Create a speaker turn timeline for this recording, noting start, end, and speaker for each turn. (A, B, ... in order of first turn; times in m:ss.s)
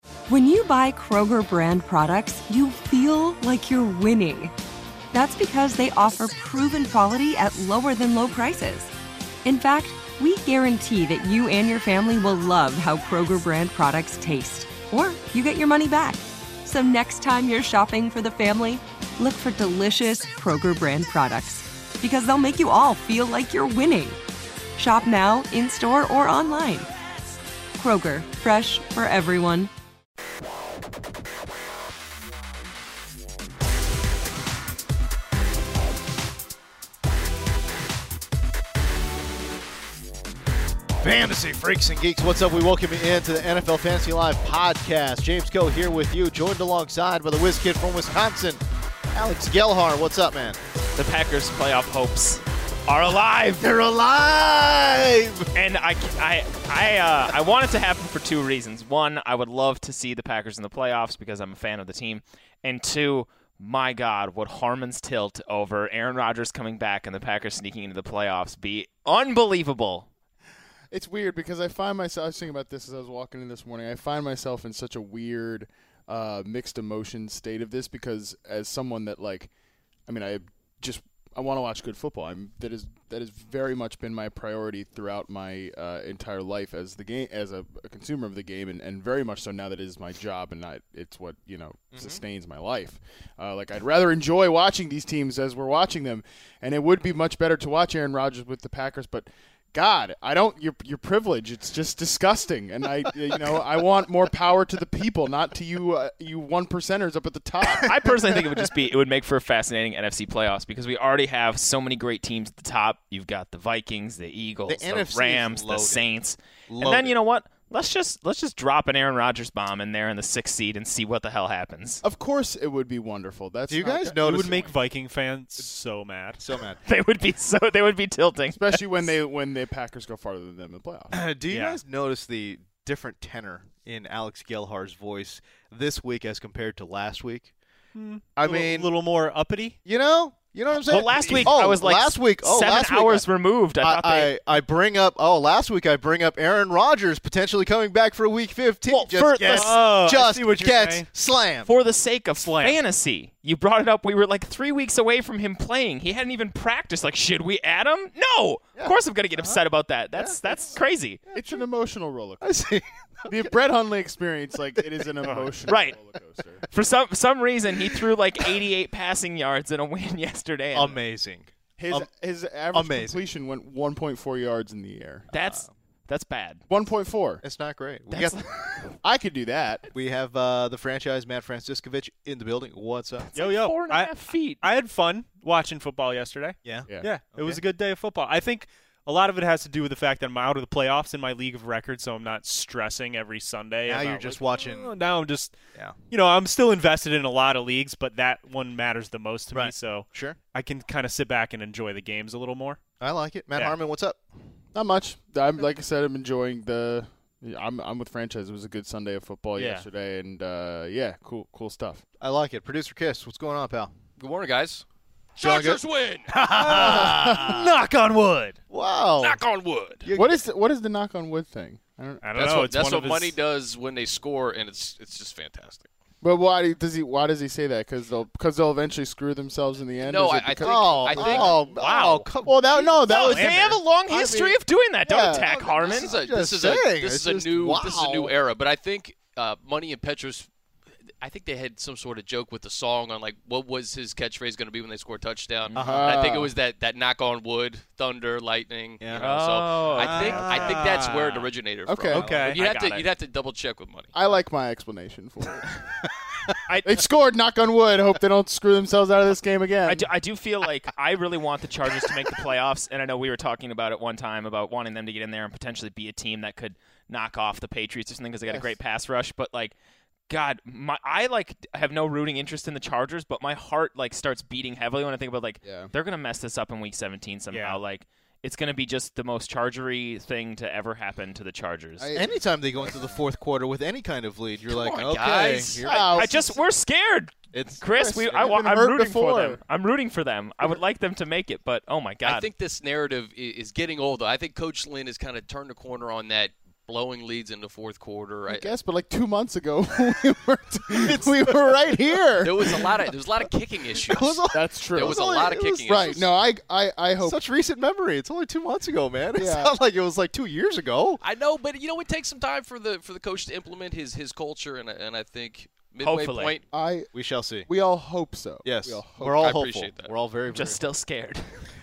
0:00.3-0:04.5 A
0:05.1-0:08.9 A
0:09.4-0:24.2 A
0:24.8-0:26.9 A
0:27.8-0:29.7 A
0:41.0-0:48.6 B
0:49.1-0:50.6 B
0:51.0-0:53.7 C
0:53.6-0:55.5 B
0:55.5-1:10.1 C
1:10.9-1:19.5 D
1:20.1-1:48.1 D
1:31.9-1:32.2 B
1:47.8-2:02.0 C
1:54.7-1:56.1 B
1:56.7-1:57.1 B
2:02.0-2:04.5 D
2:03.7-2:04.7 B
2:04.2-2:06.4 E
2:06.4-2:06.8 B
2:06.8-2:09.1 C
2:08.5-2:11.2 D
2:11.1-2:17.5 B
2:11.5-2:11.8 E
2:17.9-2:19.8 E
2:18.4-2:18.9 B
2:19.8-2:23.2 B
2:20.8-2:24.3 C
2:20.9-2:21.6 E
2:23.8-2:31.7 B
2:28.9-2:29.8 C
2:29.0-2:31.1 E
2:31.6-2:41.2 C
2:32.4-2:32.8 E
2:38.8-2:39.6 B
2:40.1-2:40.6 B
2:41.3-2:42.6 D
2:42.4-2:43.5 B
2:43.2-2:46.6 D
2:44.8-2:45.1 B
2:45.2-2:45.5 E
2:45.7-2:46.0 C
2:46.7-2:51.0 C
2:50.7-2:52.1 B
2:51.8-2:55.3 D
2:52.7-2:53.2 B
2:55.3-2:56.6 C
2:55.3-2:55.7 B
2:56.7-2:57.4 D
2:57.4-2:58.4 B
2:58.1-2:59.0 C
2:59.0-2:59.8 D
2:59.9-3:03.3 B
3:03.3-3:04.6 C
3:03.3-3:15.6 E
3:06.6-3:07.6 B
3:13.8-3:14.9 B
3:16.1-3:22.8 E
3:19.5-3:20.4 B
3:23.0-3:24.2 B
3:24.7-3:32.0 D
3:29.6-3:29.9 E
3:32.2-3:33.9 B
3:34.2-3:34.8 F
3:35.4-3:36.4 F
3:35.4-3:39.4 B
3:36.6-3:37.7 D
3:39.2-3:40.1 F
3:40.0-3:40.3 B
3:40.1-3:42.5 D
3:42.2-3:43.4 E
3:42.3-3:45.9 F
3:46.2-3:51.5 D
3:50.0-3:51.6 F
3:50.6-3:52.9 B
3:51.7-3:52.3 C
3:52.4-3:55.5 D
3:53.1-3:56.2 C
3:53.1-3:53.8 E
3:55.4-3:58.3 B
3:55.8-4:00.5 F
4:01.2-4:14.1 F
4:05.7-4:06.2 B
4:05.8-4:06.5 D
4:09.0-4:09.5 B
4:09.2-4:10.9 C
4:10.0-4:10.6 B
4:10.0-4:11.5 E
4:11.8-4:12.2 D
4:12.1-4:12.6 E
4:12.2-4:13.1 C
4:14.1-4:15.9 D
4:16.8-4:20.1 D
4:19.8-4:29.7 C
4:28.5-4:28.7 D
4:30.3-4:42.1 C
4:35.6-4:35.9 D
4:37.5-4:37.8 E
4:42.0-4:42.9 D
4:42.1-4:46.2 B
4:44.7-4:45.8 F
4:45.8-4:46.6 D
4:45.8-4:52.5 C
4:47.5-4:47.8 B
4:47.9-4:49.6 D
4:52.2-4:58.7 F
4:58.5-5:03.1 D
5:01.0-5:01.3 B
5:02.4-5:06.3 F
5:04.1-5:05.9 B
5:04.5-5:07.4 D
5:07.2-5:11.2 B
5:09.4-5:09.7 D
5:11.2-5:16.6 F
5:16.0-5:16.6 C
5:16.7-5:17.1 D
5:17.1-5:17.7 B
5:17.6-5:19.5 D
5:18.6-5:20.8 B
5:19.4-5:20.1 F
5:20.5-5:21.6 C